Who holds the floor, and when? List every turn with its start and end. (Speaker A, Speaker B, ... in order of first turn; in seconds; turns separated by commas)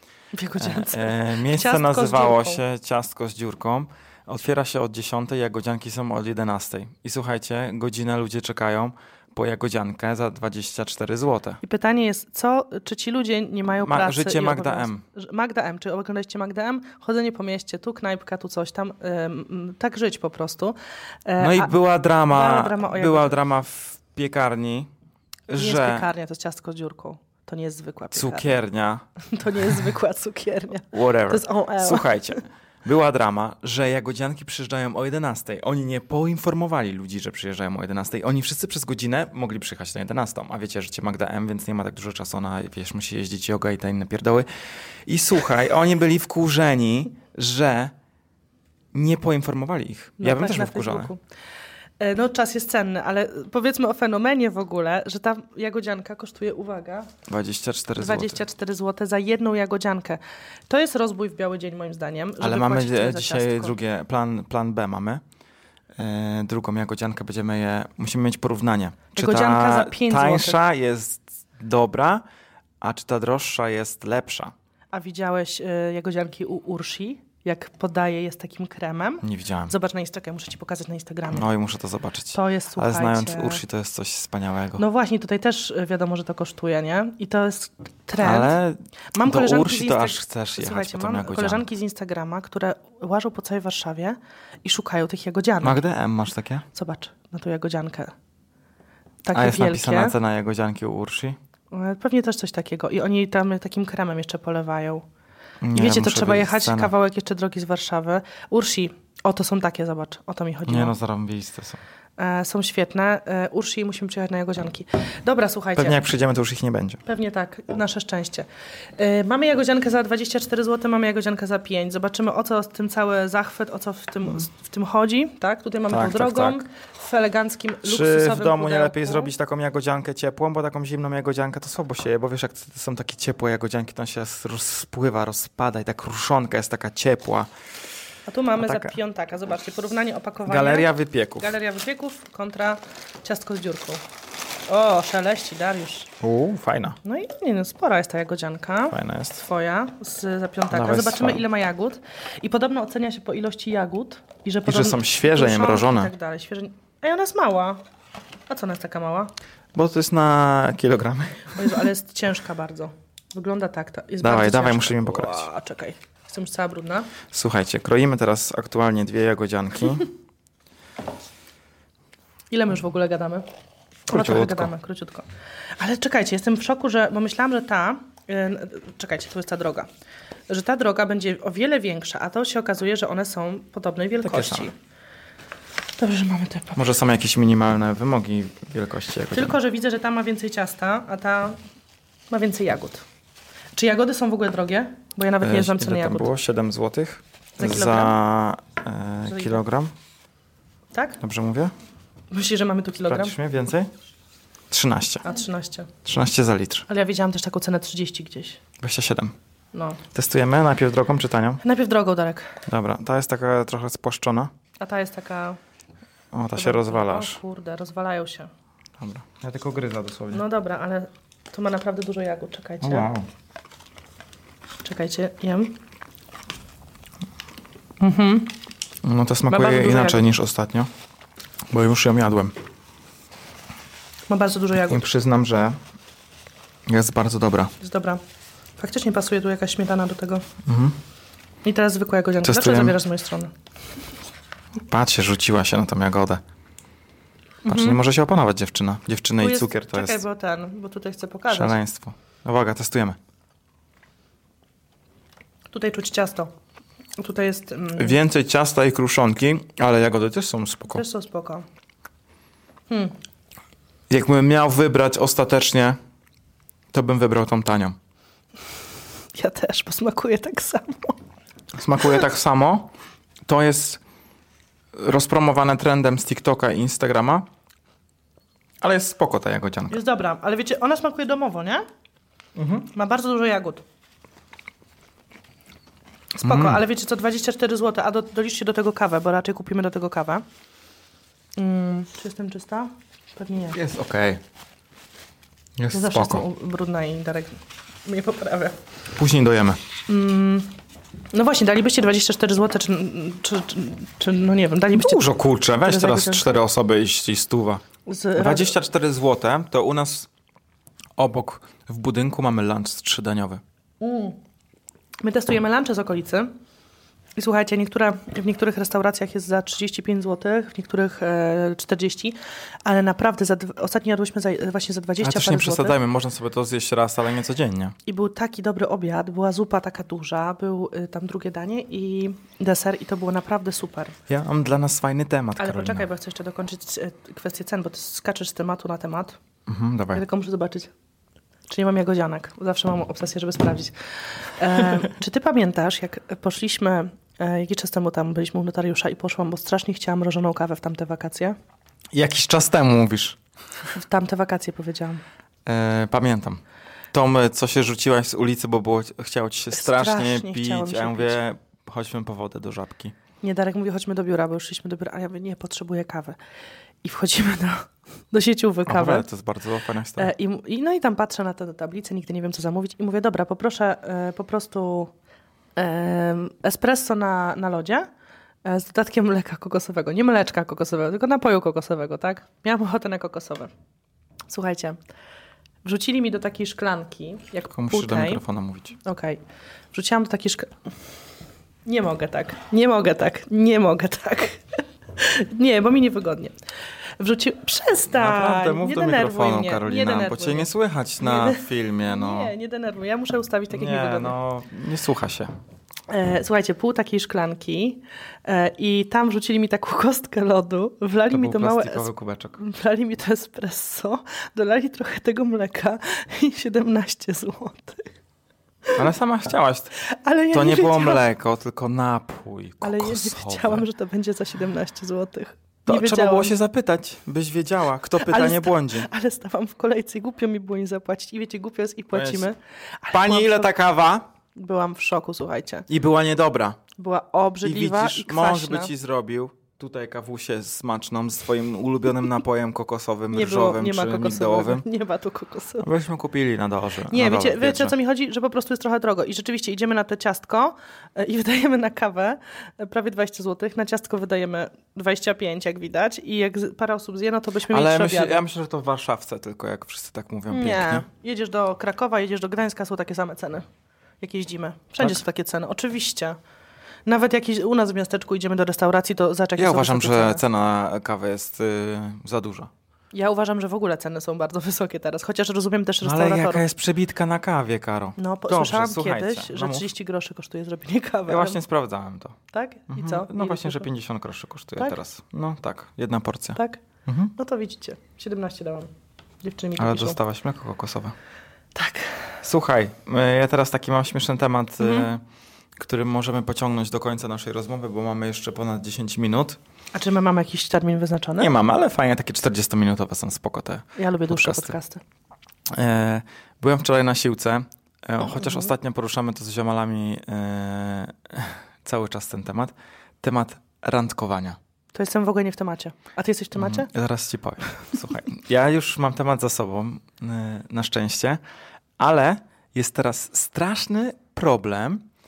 Speaker A: 0.3-2.6, Speaker B: 0.6-11.6, Speaker A: 11.6-21.8, Speaker B: 13.8-15.0, Speaker B: 21.4-24.9, Speaker A: 22.3-23.4, Speaker B: 25.5-26.1, Speaker A: 25.6-28.5, Speaker B: 28.1-29.1, Speaker A: 29.2-32.4, Speaker B: 29.6-29.9, Speaker B: 30.9-44.5, Speaker B: 45.1-47.9, Speaker B: 48.9-51.1, Speaker A: 50.2-51.2, Speaker A: 52.0-57.1, Speaker B: 57.3-58.4, Speaker A: 58.0-63.8, Speaker B: 62.4-65.2, Speaker B: 66.0-72.2, Speaker A: 69.2-70.6, Speaker B: 72.8-74.5, Speaker A: 74.9-81.5, Speaker B: 79.2-79.7, Speaker B: 81.3-84.8, Speaker A: 82.3-83.6, Speaker A: 84.8-88.6, Speaker B: 88.2-91.7, Speaker A: 89.1-95.8, Speaker B: 95.6-96.7, Speaker A: 96.7-98.1, Speaker A: 99.2-100.1, Speaker B: 99.3-101.4, Speaker A: 101.7-105.0, Speaker B: 105.6-106.9, Speaker A: 105.7-110.9, Speaker B: 110.7-111.8, Speaker A: 112.2-116.0, Speaker B: 115.8-117.0, Speaker A: 117.1-118.5, Speaker A: 119.0-129.3, Speaker B: 125.9-126.6, Speaker B: 127.8-137.5, Speaker A: 138.3-144.0, Speaker B: 138.6-138.9, Speaker B: 140.4-141.5, Speaker A: 144.7-146.1, Speaker B: 146.2-147.0, Speaker A: 147.0-157.8, Speaker B: 148.9-149.4, Speaker B: 150.7-151.4, Speaker B: 154.7-156.1, Speaker A: 158.5-159.3, Speaker B: 159.7-161.8, Speaker A: 161.5-167.1, Speaker B: 164.2-165.5, Speaker B: 167.3-170.1, Speaker A: 172.5-173.4, Speaker B: 174.1-174.7, Speaker A: 174.1-175.3, Speaker A: 175.8-179.9, Speaker A: 180.5-184.7, Speaker B: 184.2-184.7, Speaker A: 186.0-186.8, Speaker B: 186.8-189.6, Speaker A: 189.3-191.6, Speaker A: 192.3-193.0, Speaker A: 193.8-196.3, Speaker B: 195.4-199.9, Speaker A: 197.6-198.2, Speaker A: 199.3-199.6, Speaker A: 200.9-201.2, Speaker B: 201.2-201.7, Speaker A: 202.3-203.4, Speaker B: 203.1-203.9, Speaker B: 204.7-205.3, Speaker A: 205.2-205.9, Speaker B: 206.0-206.9, Speaker A: 206.9-208.6, Speaker B: 208.8-209.3, Speaker A: 209.7-210.0, Speaker B: 210.1-211.6, Speaker A: 211.6-212.6, Speaker B: 212.7-214.5, Speaker A: 214.8-215.6, Speaker B: 216.3-217.4, Speaker A: 216.5-218.5, Speaker B: 219.0-220.4, Speaker A: 220.3-223.1, Speaker B: 222.8-223.3, Speaker A: 224.8-225.8, Speaker A: 228.0-228.6, Speaker B: 229.0-230.9, Speaker A: 229.5-230.2, Speaker B: 231.7-232.6, Speaker A: 234.3-235.0, Speaker B: 234.8-235.8, Speaker B: 236.9-237.7, Speaker A: 237.8-238.2, Speaker A: 238.8-240.4, Speaker B: 240.6-241.0, Speaker A: 241.6-243.5, Speaker B: 242.4-243.0, Speaker B: 244.8-246.4, Speaker A: 247.6-248.0, Speaker B: 247.6-250.2, Speaker A: 249.4-251.8, Speaker B: 251.5-253.2, Speaker A: 255.7-256.5, Speaker A: 257.2-258.2, Speaker B: 257.9-261.0, Speaker A: 260.9-261.6, Speaker A: 262.9-263.2, Speaker B: 264.1-266.0, Speaker B: 266.9-267.9, Speaker A: 269.4-271.2, Speaker B: 271.7-272.9, Speaker B: 273.5-274.0, Speaker B: 274.9-277.5, Speaker B: 278.8-280.0, Speaker A: 279.9-281.9, Speaker B: 282.6-282.9, Speaker A: 282.9-283.8, Speaker B: 286.4-286.8, Speaker A: 286.4-290.4, Speaker A: 291.6-293.8, Speaker B: 293.7-294.4, Speaker B: 295.8-296.4, Speaker A: 295.9-298.8, Speaker B: 299.1-299.8, Speaker A: 300.1-300.8, Speaker A: 301.3-305.2, Speaker B: 304.9-307.8, Speaker A: 305.9-306.4, Speaker A: 308.1-308.8, Speaker B: 308.4-310.3, Speaker B: 311.2-313.6, Speaker A: 314.0-314.4, Speaker A: 315.2-316.5, Speaker A: 317.4-326.0, Speaker B: 325.2-327.9, Speaker A: 328.1-334.1, Speaker B: 334.3-336.1, Speaker A: 335.6-339.4, Speaker B: 339.7-340.2, Speaker A: 340.1-340.9, Speaker A: 341.7-343.9, Speaker A: 344.4-351.6, Speaker B: 352.1-353.4, Speaker A: 353.9-355.2, Speaker B: 355.6-356.6, Speaker B: 357.1-363.1, Speaker A: 359.7-361.4, Speaker A: 363.4-366.4, Speaker A: 367.0-369.2, Speaker B: 368.9-370.3, Speaker A: 370.2-375.1, Speaker A: 375.8-378.1, Speaker A: 378.6-383.7, Speaker A: 384.5-385.0, Speaker A: 385.9-388.4, Speaker B: 387.7-389.0, Speaker A: 389.0-389.4, Speaker A: 389.9-390.8, Speaker A: 391.9-396.6, Speaker A: 397.2-404.3, Speaker B: 398.1-402.5, Speaker B: 403.7-405.5, Speaker A: 406.1-418.1, Speaker B: 411.3-412.6, Speaker B: 418.9-420.0, Speaker A: 420.0-421.2, Speaker B: 420.5-423.9, Speaker A: 422.8-426.5, Speaker B: 425.9-429.1, Speaker A: 428.2-433.7, Speaker B: 432.1-432.5, Speaker B: 433.1-434.3, Speaker A: 434.6-435.9, Speaker B: 435.9-436.8, Speaker A: 437.0-438.9, Speaker B: 437.6-444.9, Speaker A: 443.3-445.9, Speaker B: 445.8-447.9, Speaker A: 447.1-458.4, Speaker B: 457.7-461.1, Speaker A: 460.5-463.6, Speaker A: 464.2-466.4, Speaker A: 467.1-470.4, Speaker B: 469.6-472.7, Speaker A: 473.1-476.6, Speaker B: 476.0-479.9, Speaker A: 478.2-481.6, Speaker B: 481.3-482.4, Speaker A: 482.5-483.9, Speaker B: 482.9-487.3, Speaker A: 486.6-486.8, Speaker A: 487.4-488.9, Speaker A: 489.4-490.2, Speaker B: 489.8-491.1, Speaker A: 491.8-492.2, Speaker B: 492.4-495.2, Speaker A: 494.8-495.1, Speaker B: 495.8-499.6, Speaker A: 499.9-501.5, Speaker B: 501.4-504.8, Speaker A: 504.0-505.0, Speaker B: 505.7-514.6, Speaker A: 514.9-516.9, Speaker B: 516.6-521.4, Speaker B: 522.0-525.1